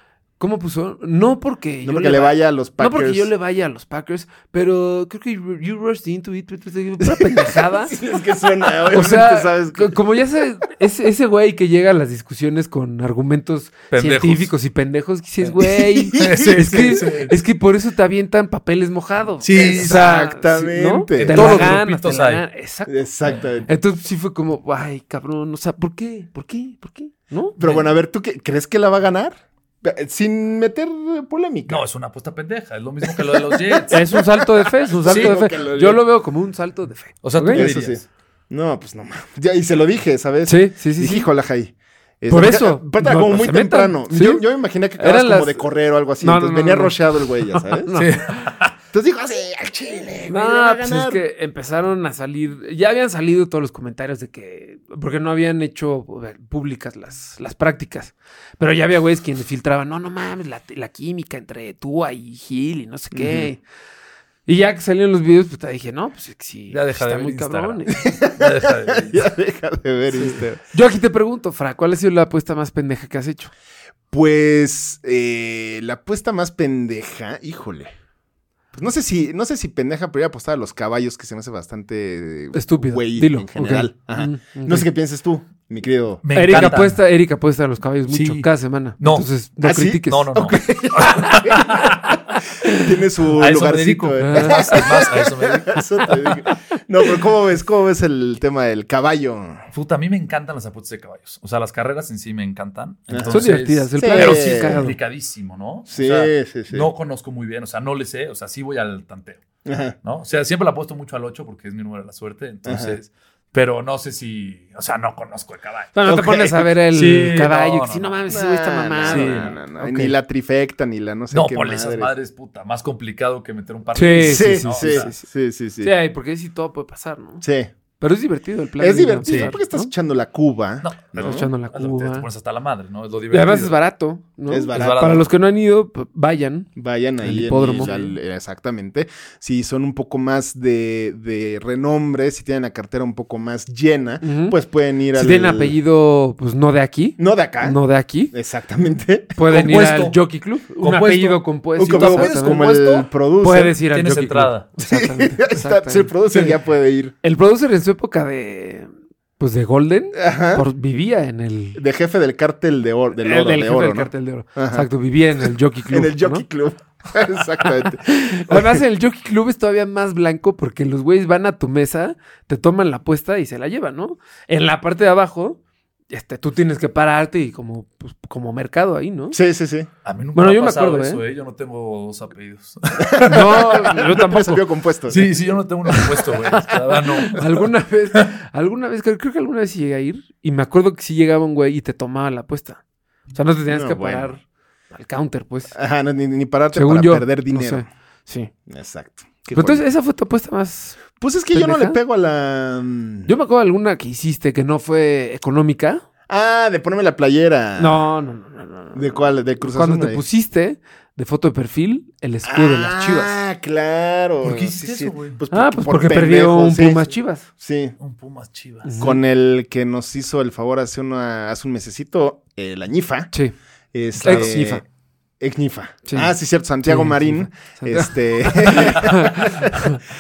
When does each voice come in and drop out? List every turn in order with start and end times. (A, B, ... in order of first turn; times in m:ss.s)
0:00.4-0:08.0 A
0:01.8-0:03.3 B
0:07.0-0:10.0 B
0:08.9-0:22.9 A
0:13.9-0:14.5 C
0:15.6-0:17.3 B
0:16.2-0:17.3 C
0:19.4-0:20.1 C
0:19.5-0:21.8 B
0:21.2-0:22.4 C
0:22.9-0:23.7 B
0:23.7-0:27.6 A
0:27.6-0:31.8 B
0:27.6-0:27.9 C
0:31.7-0:34.0 C
0:33.0-0:36.0 B
0:33.9-0:37.6 A
0:35.1-0:35.4 C
0:37.2-0:38.1 C
0:37.5-0:47.9 B
0:40.5-0:41.3 A
0:42.3-0:44.4 A
0:45.0-0:48.5 A
0:48.0-0:48.7 C
0:48.9-0:51.2 B
0:50.3-1:03.6 A
1:03.1-1:03.5 B
1:04.5-1:08.1 A
1:06.7-1:09.2 C
1:08.0-1:10.6 B
1:10.1-1:13.5 A
1:14.1-1:17.9 B
1:18.8-1:26.9 B
1:22.5-1:24.9 A
1:26.2-1:27.0 C
1:26.4-1:31.3 A
1:28.1-1:29.3 C
1:29.6-1:32.0 B
1:30.1-1:32.2 C
1:32.7-1:39.6 B
1:33.4-1:36.2 C
1:34.2-1:34.9 A
1:39.7-1:49.4 C
1:43.1-1:44.8 B
1:43.3-1:45.0 A
1:45.9-1:46.9 B
1:49.7-1:50.0 B
1:50.0-1:56.0 C
1:52.6-1:53.0 B
1:55.9-2:00.2 A
1:56.0-1:56.7 B
1:56.9-1:58.2 C
1:58.3-2:02.1 B
1:59.0-1:59.5 C
2:01.3-2:05.1 C
2:04.0-2:05.2 A
2:04.2-2:05.9 B
2:05.8-2:07.4 A
2:07.4-2:07.7 B
2:08.0-2:09.9 A
2:08.8-2:11.5 B
2:09.3-2:09.6 C
2:10.8-2:13.8 C
2:11.2-2:12.3 A
2:13.3-2:16.7 A
2:14.5-2:15.2 B
2:14.7-2:15.3 C
2:16.8-2:25.8 B
2:17.2-2:18.1 A
2:24.2-2:24.6 A
2:25.1-2:28.3 A
2:27.2-2:27.8 B
2:28.3-2:29.4 B
2:29.4-2:32.8 A
2:29.5-2:33.1 C
2:31.8-2:33.8 B
2:33.4-2:36.5 A
2:33.9-2:34.7 C
2:34.8-2:37.2 B
2:37.2-2:41.8 A
2:40.1-2:40.6 B
2:41.8-2:44.9 B
2:43.2-2:46.4 A
2:45.9-2:48.8 B
2:47.7-2:55.6 A
2:56.1-2:59.4 A
2:59.3-2:59.9 B
3:00.0-3:03.7 C
3:00.4-3:01.2 A
3:03.1-3:05.4 B
3:03.2-3:04.6 A
3:05.1-3:07.6 C
3:06.6-3:12.8 A
3:13.3-3:15.8 A
3:13.7-3:14.4 B
3:15.7-3:17.9 B
3:16.7-3:18.5 A
3:18.7-3:19.8 B
3:19.5-3:22.0 A
3:21.2-3:23.3 B
3:23.3-3:26.0 A
3:26.3-3:28.0 B
3:27.8-3:33.4 A
3:28.9-3:30.2 B
3:32.4-3:38.0 B
3:34.4-3:35.4 C
3:34.8-3:37.5 A
3:38.0-3:38.9 C
3:38.8-3:39.2 A
3:39.0-3:43.3 B
3:43.9-3:44.8 B
3:44.2-3:44.8 A
3:44.2-3:44.5 C
3:45.4-3:49.9 B
3:46.1-3:46.3 A
3:46.8-3:50.0 A